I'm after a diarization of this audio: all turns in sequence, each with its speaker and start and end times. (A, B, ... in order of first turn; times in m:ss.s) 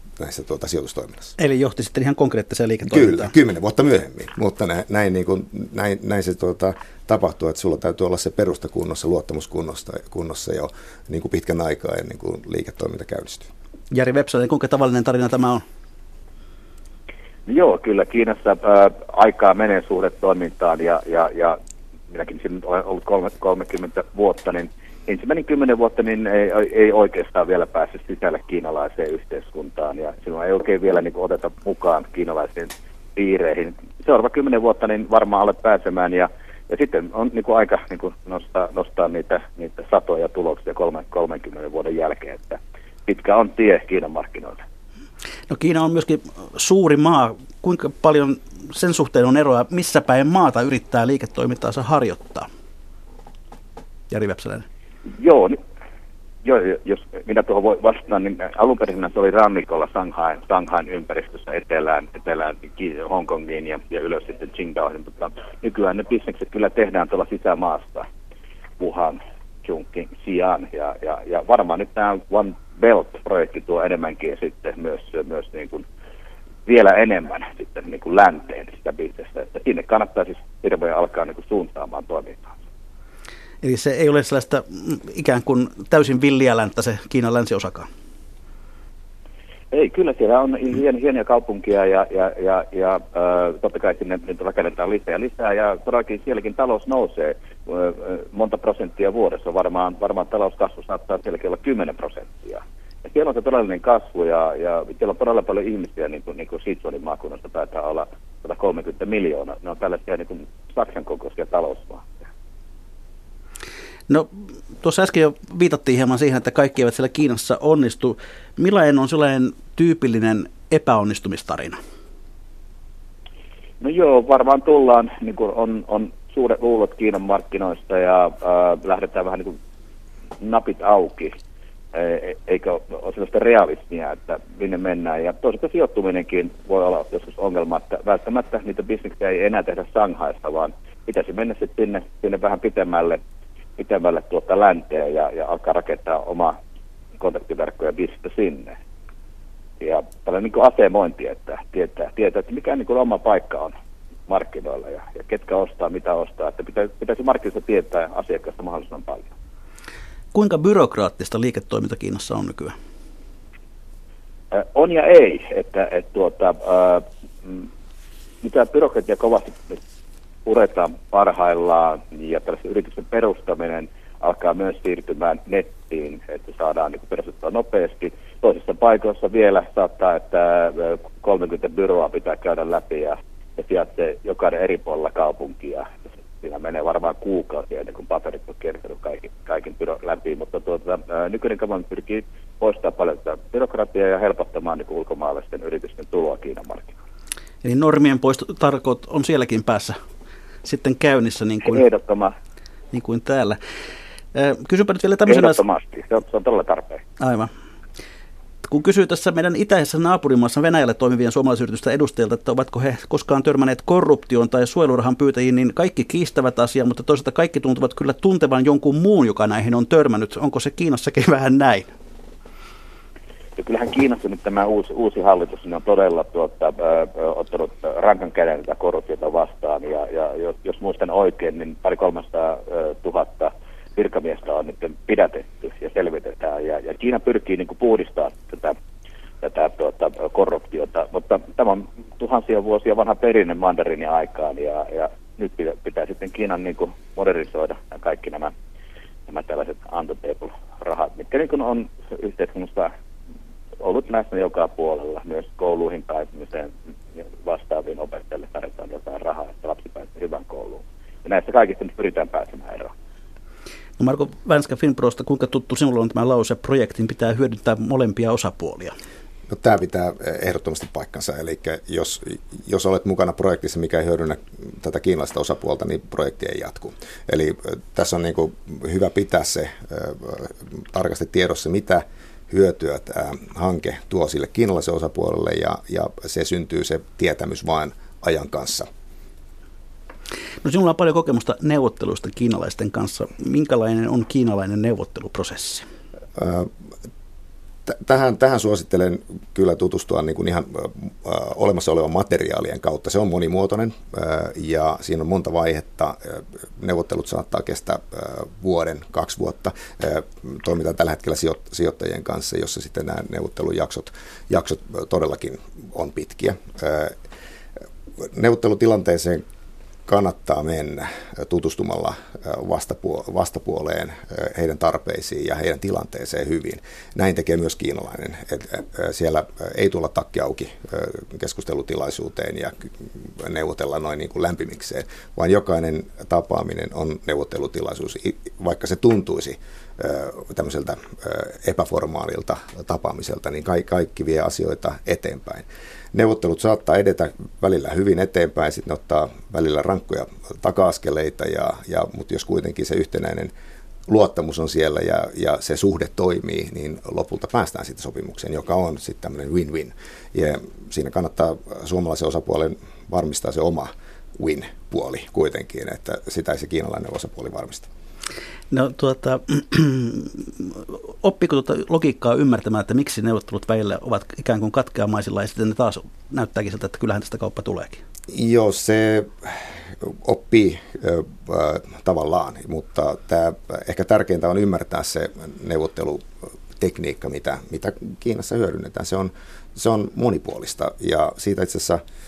0:00.2-0:01.4 A
0:01.4-0:03.3 B
0:02.9-0:13.5 A
0:13.9-0:15.6 B
0:17.5-0:21.6 C
0:22.1-0:44.6 C
0:45.5-0:52.5 B
0:54.1-0:54.6 B
0:55.2-0:55.6 C
0:56.4-1:08.1 C
1:08.8-1:15.8 C
1:16.7-1:22.5 C
1:23.6-1:27.9 B
1:29.7-1:52.2 C
1:54.1-2:01.8 B
2:03.8-2:09.6 C
2:10.4-2:11.3 C
2:11.9-2:23.2 C
2:23.8-2:26.6 C
2:27.2-2:28.8 C
2:29.8-2:33.7 C
2:34.3-2:39.3 C
2:40.3-2:42.7 B
2:44.5-2:47.7 C
2:48.4-2:49.8 C
2:50.5-3:05.9 C
3:06.4-3:17.0 C
3:17.6-3:20.0 B
3:20.6-3:21.8 B
3:21.7-3:22.3 C
3:22.9-3:23.6 B
3:24.3-3:25.6 B
3:25.3-3:27.0 C
3:27.2-3:27.5 B
3:28.6-3:41.9 B
3:43.6-3:58.8 C
3:59.4-4:08.5 C
4:09.3-4:12.9 C
4:13.8-4:22.9 C
4:24.0-4:28.9 B
4:29.5-4:48.9 A
4:50.6-4:55.8 B
4:56.4-4:56.7 A
4:57.9-5:17.2 A
5:18.2-5:19.4 A
5:20.1-5:32.8 A
5:33.3-5:53.5 A
5:54.1-6:07.9 A
6:08.7-6:18.0 B
6:18.3-6:32.0 A